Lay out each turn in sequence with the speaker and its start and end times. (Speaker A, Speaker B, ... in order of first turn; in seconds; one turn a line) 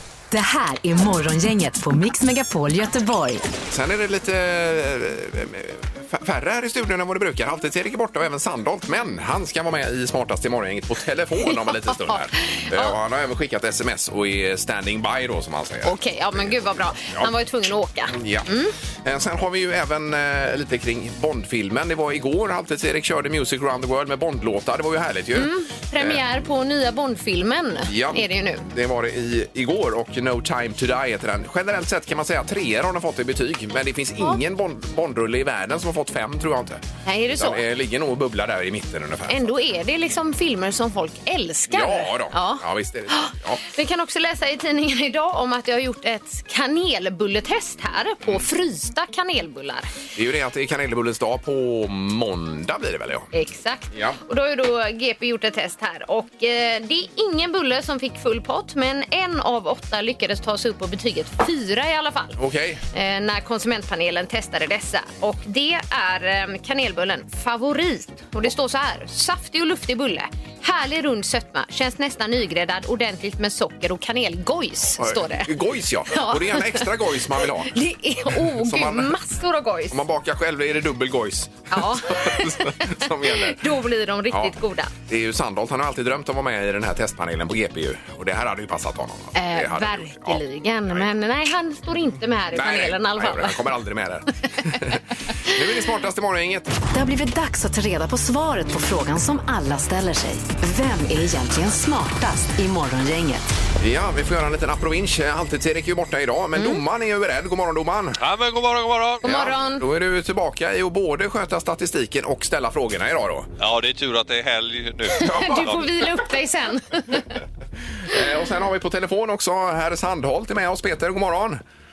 Speaker A: 0.3-3.4
Speaker B: 3.7-17.3
Speaker C: 11.5-13.0
Speaker C: 15.8-18.7
Speaker B: 18.1-18.5
Speaker B: 19.0-26.2
Speaker C: 25.4-28.7
Speaker B: 27.9-36.8
Speaker C: 37.0-37.6
Speaker B: 37.4-39.5
Speaker C: 39.3-49.9
Speaker B: 41.7-43.6
Speaker B: 50.1-53.3
Speaker C: 53.3-62.4
Speaker B: 53.9-54.2
Speaker B: 62.4-62.8
Speaker C: 62.9-75.5
Speaker B: 75.0-77.7
Speaker C: 76.1-76.9
Speaker C: 77.4-80.0
Speaker B: 78.4-79.2
Speaker B: 79.9-83.6
Speaker C: 81.7-84.9
Speaker B: 84.3-91.1
Speaker C: 89.3-93.6
Speaker B: 92.5-96.7
Speaker A: 96.9-103.5
Speaker B: 103.8-108.2
Speaker C: 106.6-106.8
Speaker D: 108.2-109.2
Speaker C: 109.2-109.8
Speaker B: 109.2-113.5
Speaker D: 113.6-115.7
Speaker C: 115.1-117.3
Speaker B: 115.2-115.9
Speaker B: 118.0-121.6